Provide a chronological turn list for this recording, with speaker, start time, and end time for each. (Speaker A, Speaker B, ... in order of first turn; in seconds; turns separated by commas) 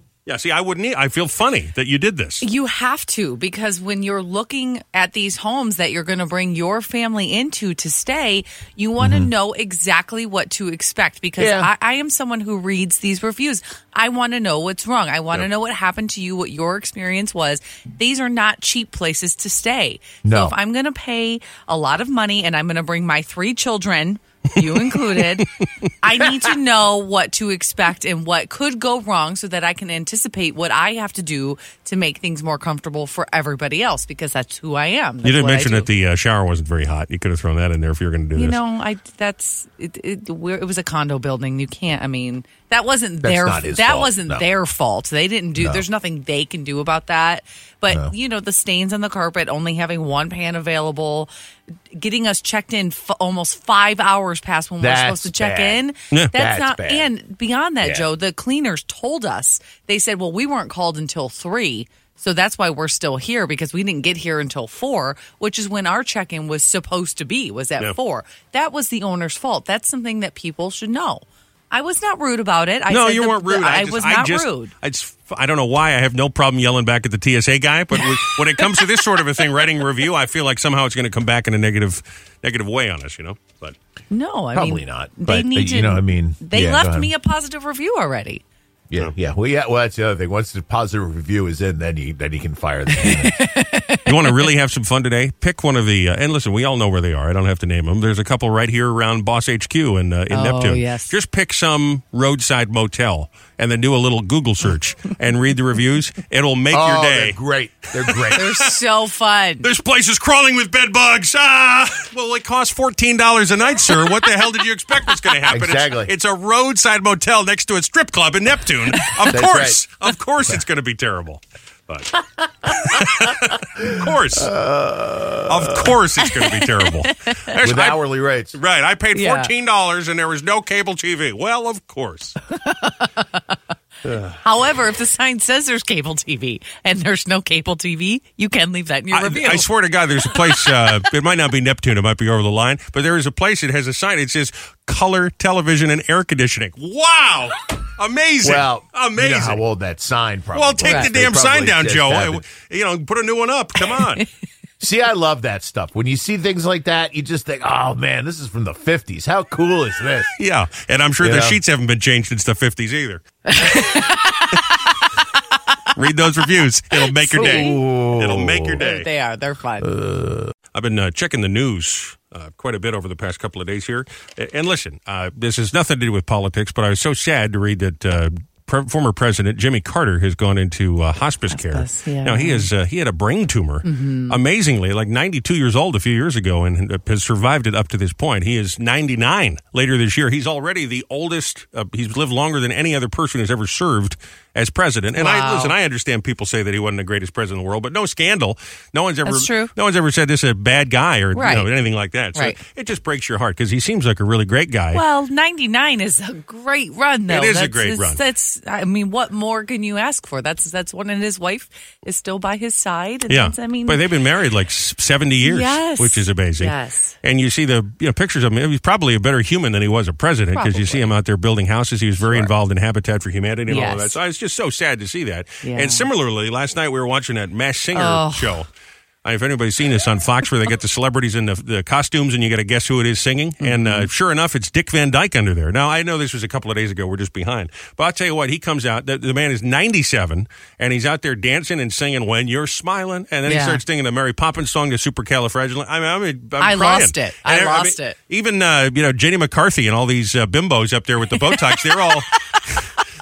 Speaker A: 0.2-2.4, Speaker B: 2.4-25.5, Speaker C: 9.0-9.3, Speaker C: 11.4-11.7, Speaker C: 20.2-20.5, Speaker B: 26.0-35.9, Speaker A: 35.2-38.6, Speaker B: 38.4-51.3, Speaker C: 43.2-44.5, Speaker C: 45.6-45.8, Speaker B: 51.9-74.7, Speaker C: 54.8-55.8, Speaker C: 56.3-57.1, Speaker A: 72.9-83.8, Speaker B: 78.0-78.8, Speaker B: 84.1-88.4, Speaker C: 84.5-87.1, Speaker C: 88.9-93.4, Speaker B: 92.9-94.5, Speaker A: 94.0-107.4, Speaker B: 100.3-101.1, Speaker C: 106.7-108.5, Speaker A: 108.0-108.5, Speaker B: 108.3-109.7, Speaker A: 109.6-124.5, Speaker C: 115.5-116.1, Speaker C: 119.2-119.8, Speaker C: 123.0-126.0, Speaker A: 125.5-128.0, Speaker B: 126.4-127.5, Speaker C: 127.6-128.5, Speaker A: 128.5-132.4, Speaker B: 129.1-129.5, Speaker B: 132.6-133.2, Speaker B: 134.4-139.7, Speaker A: 139.1-149.6, Speaker C: 148.4-152.4, Speaker A: 150.5-154.2, Speaker B: 150.8-151.1, Speaker C: 154.8-160.3, Speaker A: 160.4-163.2, Speaker C: 161.2-161.6, Speaker B: 163.5-164.8, Speaker A: 165.9-169.1, Speaker B: 167.2-167.8, Speaker C: 167.3-168.8, Speaker B: 168.8-169.9, Speaker C: 169.8-170.5, Speaker A: 170.7-205.0, Speaker B: 181.5-182.7, Speaker B: 183.8-184.4, Speaker B: 195.2-195.7, Speaker B: 199.2-199.7, Speaker B: 201.3-201.7, Speaker B: 204.9-214.0, Speaker A: 207.3-208.2, Speaker A: 213.3-228.7, Speaker B: 215.4-217.2, Speaker B: 220.5-221.1, Speaker B: 222.2-222.5, Speaker B: 223.7-224.2, Speaker B: 225.6-226.1, Speaker B: 227.9-228.6, Speaker A: 229.2-252.8, Speaker B: 233.6-234.1, Speaker B: 243.4-243.8, Speaker B: 246.6-248.2